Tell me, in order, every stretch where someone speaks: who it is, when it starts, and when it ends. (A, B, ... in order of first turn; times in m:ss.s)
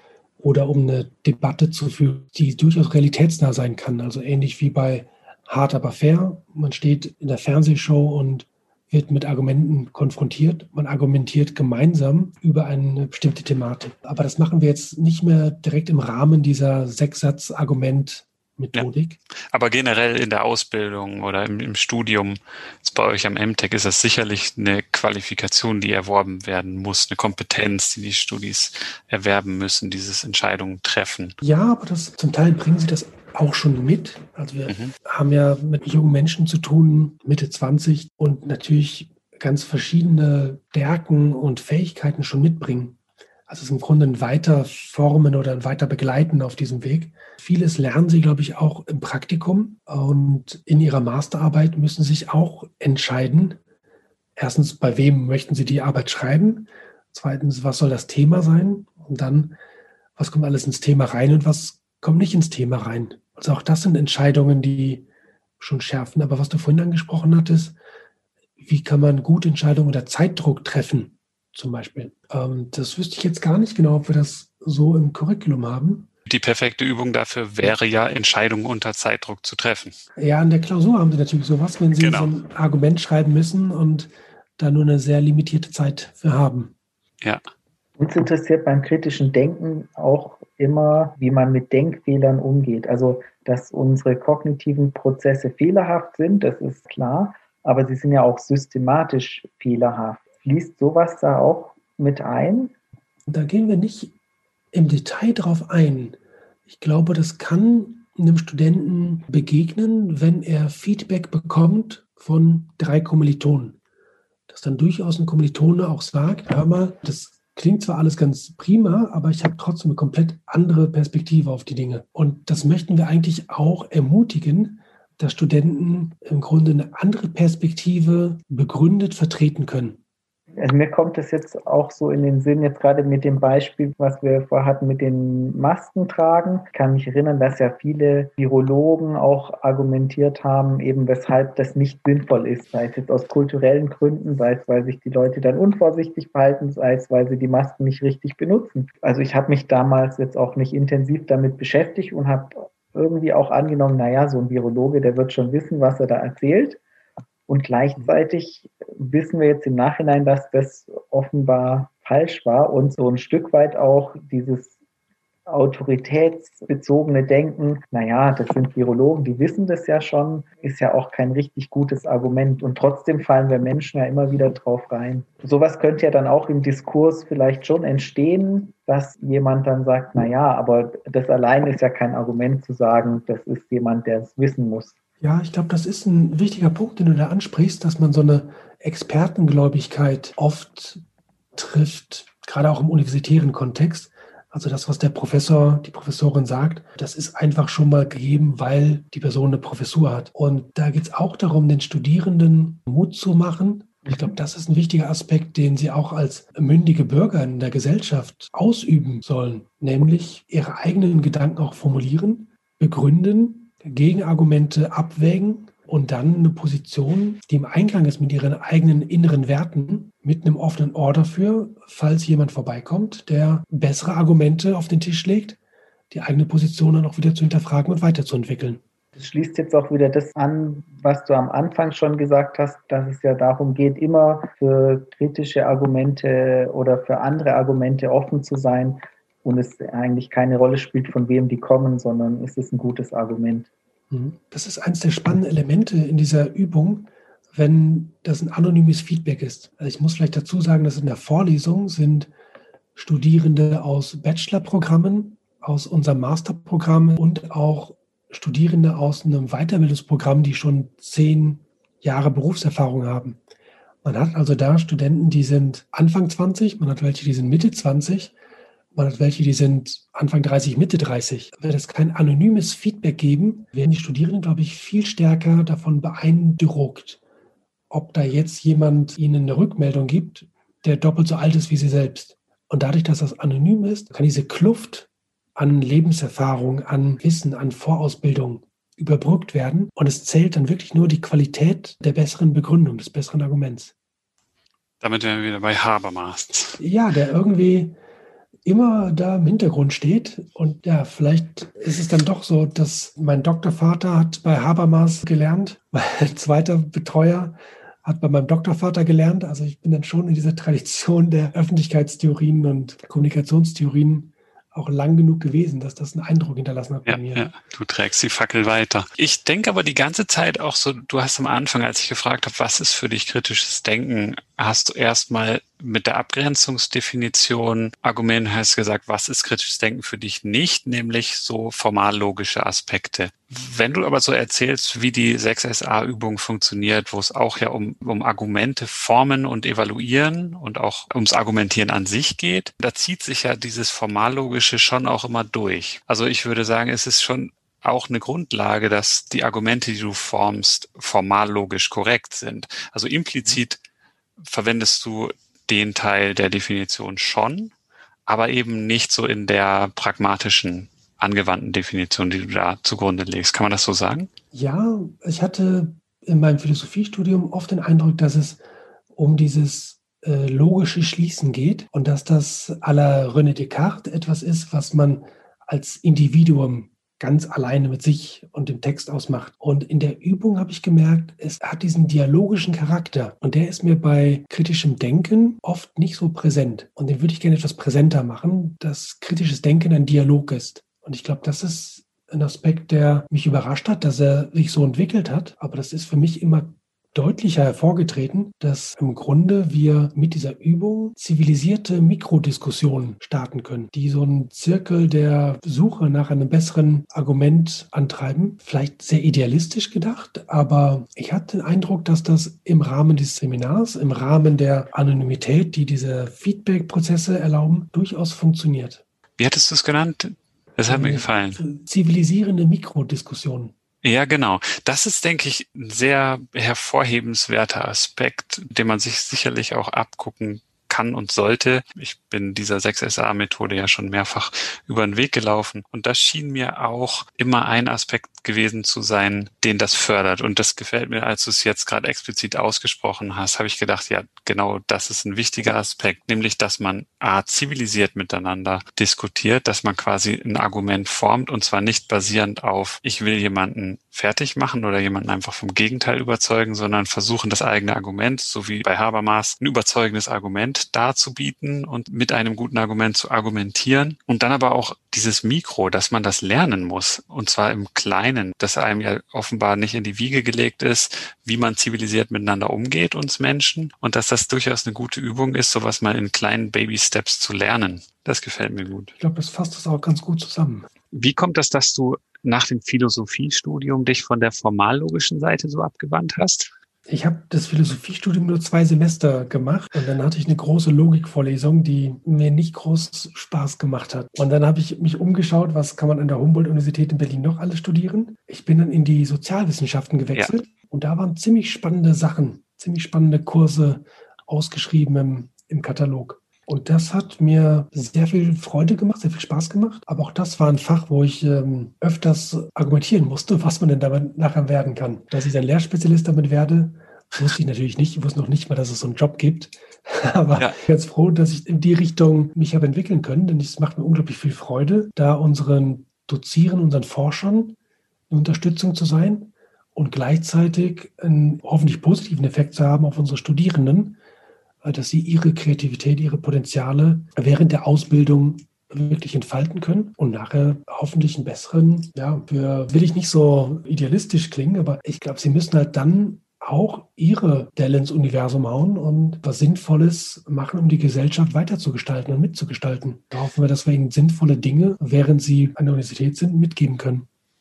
0:00.4-0:19.2 A
0:19.5-0:31.4 B
0:31.4-0:43.0 A
0:34.7-0:34.9 B
0:43.5-0:53.6 A
0:54.4-0:59.6 A
1:00.2-1:05.0 A
1:05.6-1:07.8 A
1:08.6-1:16.1 A
1:16.3-1:20.0 B
1:20.2-1:26.7 A
1:22.0-1:22.3 B
1:28.0-1:42.7 C
1:43.3-1:44.1 A
1:44.7-1:53.8 A
1:54.5-2:10.0 A
2:10.6-2:36.8 C
2:37.5-2:44.7 C
2:45.5-3:04.9 C
3:05.2-3:11.0 A
3:11.5-3:45.6 A
3:46.1-3:48.8 A
3:49.2-4:03.7 C
4:04.1-4:12.3 A
4:12.9-4:23.4 A
4:24.0-4:28.3 A
4:28.9-4:37.2 A
4:37.9-4:53.9 A
4:55.0-4:56.8 B
4:56.8-4:57.9 A
4:58.6-5:17.4 A
5:17.1-5:53.8 B
5:54.4-5:57.7 B
5:58.2-6:04.3 B
6:04.5-6:08.6 A
6:09.1-6:59.0 A
6:59.4-7:01.6 B
7:00.9-7:03.7 A
7:04.0-7:59.1 B
7:59.2-8:00.9 A
8:01.1-8:06.7 B
8:07.1-8:47.8 A
8:48.3-8:54.2 A
8:54.8-9:17.3 A